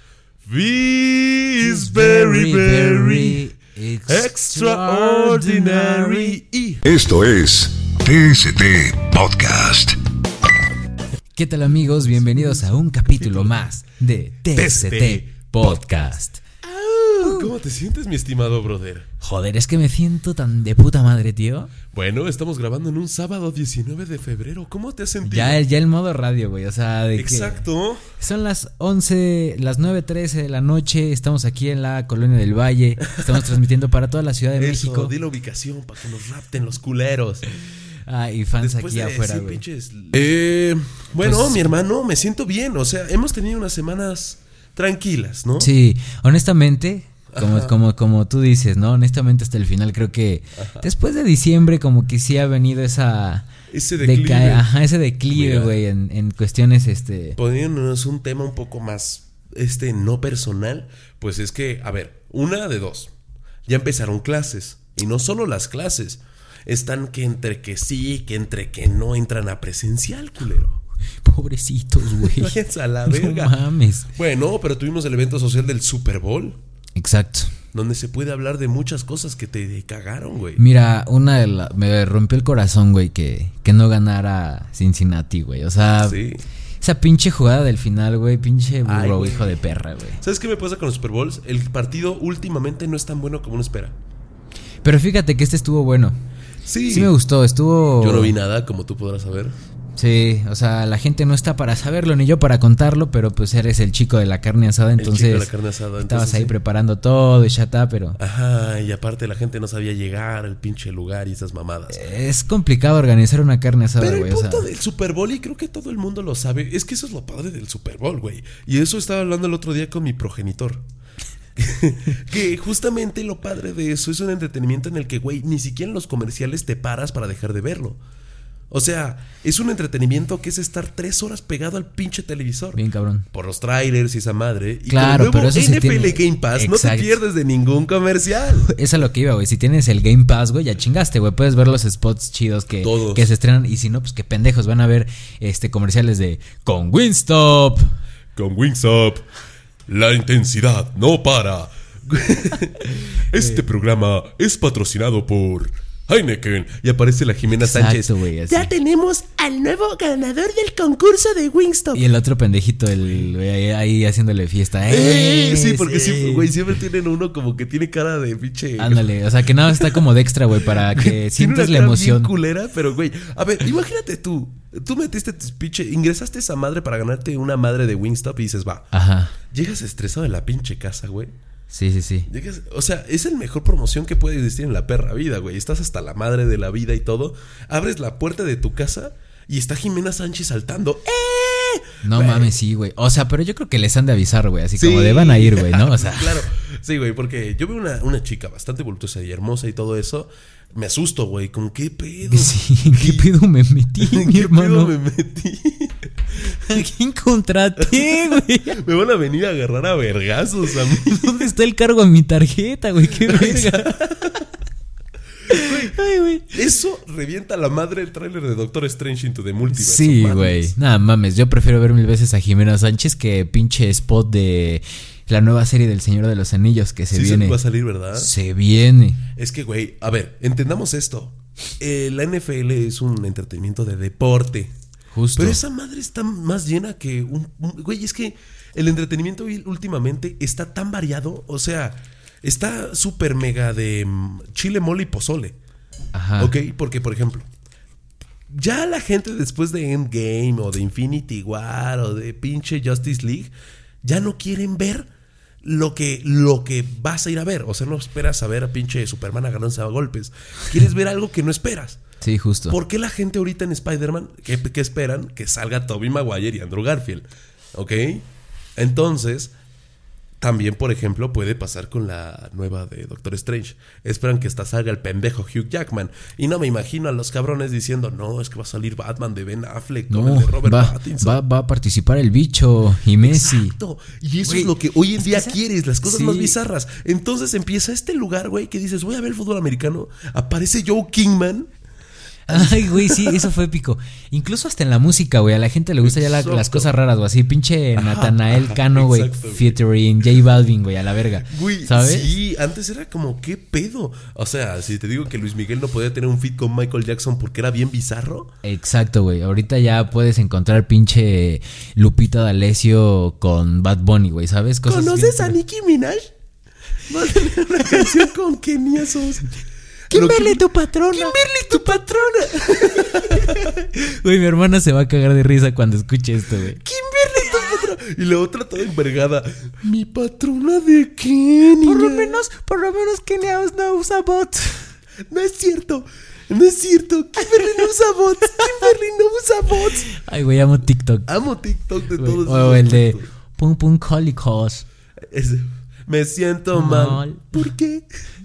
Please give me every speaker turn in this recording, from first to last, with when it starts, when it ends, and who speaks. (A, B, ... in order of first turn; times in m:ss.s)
0:00.4-0:03.4 A
0:01.6-0:06.4 B
0:04.1-0:06.8 A
0:06.8-0:10.0 C
0:11.4-0:16.4 B
0:13.2-0:13.6 A
0:14.5-0:15.8 A
0:16.6-0:19.1 A
0:17.2-0:17.5 B
0:19.2-0:21.7 B
0:21.9-0:25.6 A
0:25.2-0:27.6 B
0:27.2-0:28.1 A
0:28.2-0:35.1 B
0:34.6-0:37.5 A
0:38.0-0:39.6 B
0:38.6-0:45.7 A
0:41.2-0:41.7 B
0:45.6-0:53.5 B
0:47.3-0:47.8 A
0:50.6-0:50.9 A
0:53.7-0:54.7 A
0:54.0-0:57.4 B
0:55.3-0:55.8 A
0:57.4-1:03.1 A
1:03.7-1:10.8 A
1:11.2-1:14.1 B
1:12.1-1:13.5 A
1:14.1-1:16.6 A
1:17.0-1:17.5 B
1:17.7-1:20.6 A
1:20.6-1:26.2 B
1:26.0-1:26.4 A
1:26.8-1:30.2 B
1:28.8-1:29.6 A
1:30.2-1:34.0 A
1:34.8-1:36.2 B
1:36.7-1:37.1 A
1:36.9-1:38.4 B
1:38.0-1:39.6 A
1:40.0-1:45.5 B
1:45.0-1:46.6 A
1:46.0-1:48.2 B
1:48.2-1:52.0 A
1:51.9-1:54.7 B
1:54.0-2:00.8 A
2:01.6-2:08.0 A
2:08.7-2:18.7 A
2:12.8-2:13.3 B
2:14.9-2:17.2 B
2:18.6-2:27.8 B
2:22.8-2:23.3 A
2:28.4-2:29.2 A
2:29.9-2:42.0 A
2:33.3-2:33.6 B
2:37.6-2:38.7 B
2:41.9-2:46.5 B
2:44.9-2:49.0 A
2:48.8-2:52.3 B
2:50.7-2:58.9 A
2:58.9-2:59.3 B
2:59.5-3:01.3 A
3:01.7-3:02.3 B
3:02.3-3:12.5 A
3:12.0-3:16.4 B
3:14.8-3:23.3 A
3:22.3-3:24.9 B
3:24.0-3:26.6 A
3:26.4-3:28.8 B
3:27.8-3:31.4 A
3:30.9-3:34.4 B
3:33.2-3:34.4 A
3:35.5-3:36.0 A
3:35.5-3:36.5 B
3:36.5-3:40.7 A
3:39.7-3:47.6 B
3:47.1-3:48.3 A
3:48.1-3:49.2 B
3:49.4-3:54.7 A
3:55.1-3:55.6 B
3:55.4-4:05.6 A
4:06.1-4:06.5 B
4:06.4-4:07.5 A
4:08.5-4:13.5 A
4:14.0-4:15.1 A
4:15.6-4:22.0 A
4:22.2-4:22.8 B
4:22.7-4:28.3 A
4:28.8-4:29.5 A
4:30.4-4:41.4 A
4:40.1-4:43.8 B
4:43.2-4:51.7 A
4:44.4-4:46.6 B
4:52.5-4:53.5 A
4:52.5-5:02.3 B
4:56.0-4:56.9 A
4:58.0-4:59.8 A
5:01.4-5:08.6 A
5:08.6-5:15.6 B
5:14.9-5:16.3 A
5:17.1-5:19.5 A
5:17.9-5:18.3 B
5:20.1-5:23.7 A
5:20.1-5:26.8 B
5:26.8-5:32.4 A
5:27.4-5:27.8 B
5:31.8-5:34.9 B
5:35.3-5:40.1 A
5:37.5-5:37.8 B
5:38.6-5:38.9 B
5:40.1-5:41.3 B
5:41.3-5:43.3 A
5:42.2-5:44.8 B
5:45.3-5:48.1 A
5:46.7-5:47.6 B